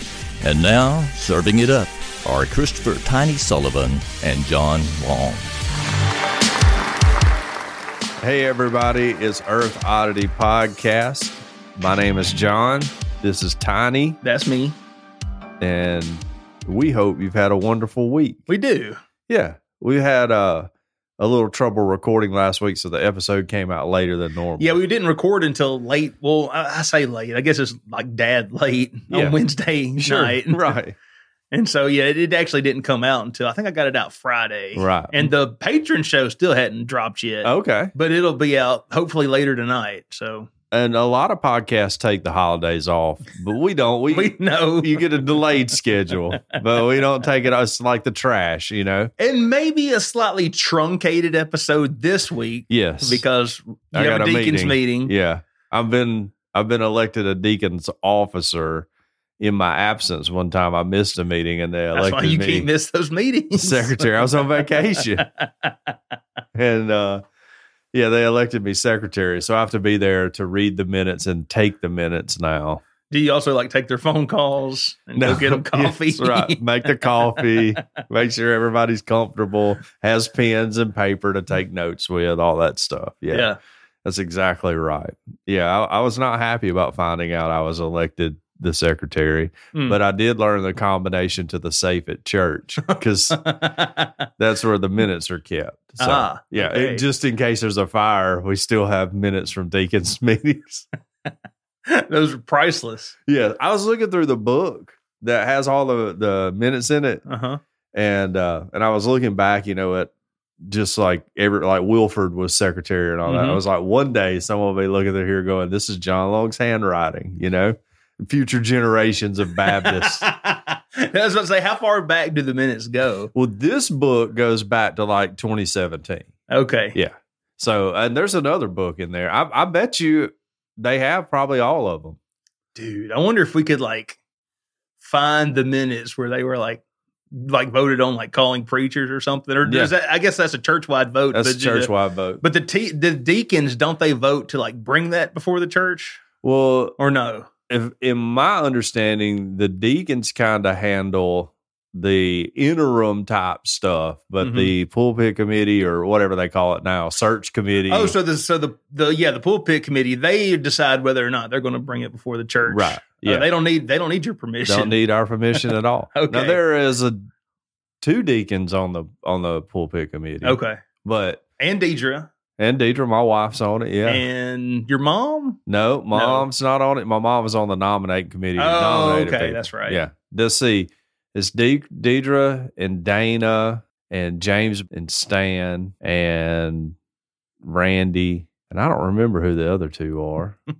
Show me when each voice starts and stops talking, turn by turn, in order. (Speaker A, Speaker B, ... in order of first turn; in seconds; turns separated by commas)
Speaker A: 0.4-5.5, Speaker B: 8.2-14.2, Speaker C: 14.2-14.8, Speaker B: 15.6-18.4, Speaker C: 18.5-19.0, Speaker B: 19.3-24.8, Speaker C: 24.6-30.8, Speaker B: 29.1-29.4, Speaker B: 30.0-30.9, Speaker C: 31.5-40.5, Speaker B: 34.8-35.3, Speaker B: 37.4-37.9, Speaker B: 40.7-49.1, Speaker C: 44.1-45.0, Speaker C: 49.2-55.1, Speaker B: 52.7-53.2, Speaker B: 53.9-58.9, Speaker B: 59.4-62.7, Speaker C: 61.9-65.7, Speaker B: 63.6-65.2, Speaker B: 66.5-67.2, Speaker B: 67.9-72.8, Speaker C: 73.1-77.8, Speaker B: 75.2-83.5, Speaker C: 83.3-83.6, Speaker B: 84.0-93.6, Speaker C: 89.7-90.0, Speaker C: 92.8-94.1, Speaker B: 94.4-100.8, Speaker C: 96.0-97.0, Speaker C: 101.8-103.1, Speaker B: 103.3-107.2, Speaker C: 107.2-107.6, Speaker B: 107.9-120.3, Speaker C: 113.2-113.6, Speaker C: 119.6-123.3, Speaker B: 123.3-126.3, Speaker C: 126.5-127.0, Speaker B: 126.9-132.2, Speaker C: 132.7-134.2, Speaker C: 135.0-146.2, Speaker B: 139.6-139.9, Speaker B: 141.3-142.4, Speaker B: 146.4-147.0, Speaker C: 147.0-147.5, Speaker B: 147.7-158.1, Speaker C: 154.4-154.7, Speaker C: 157.9-164.9, Speaker B: 162.7-163.5, Speaker B: 164.7-167.2, Speaker C: 165.5-166.6, Speaker B: 168.0-171.4, Speaker C: 170.4-170.8, Speaker C: 171.6-172.3, Speaker B: 172.6-174.2, Speaker C: 174.0-175.6, Speaker B: 175.7-186.9, Speaker C: 176.1-176.4, Speaker C: 178.6-180.0, Speaker B: 187.6-190.6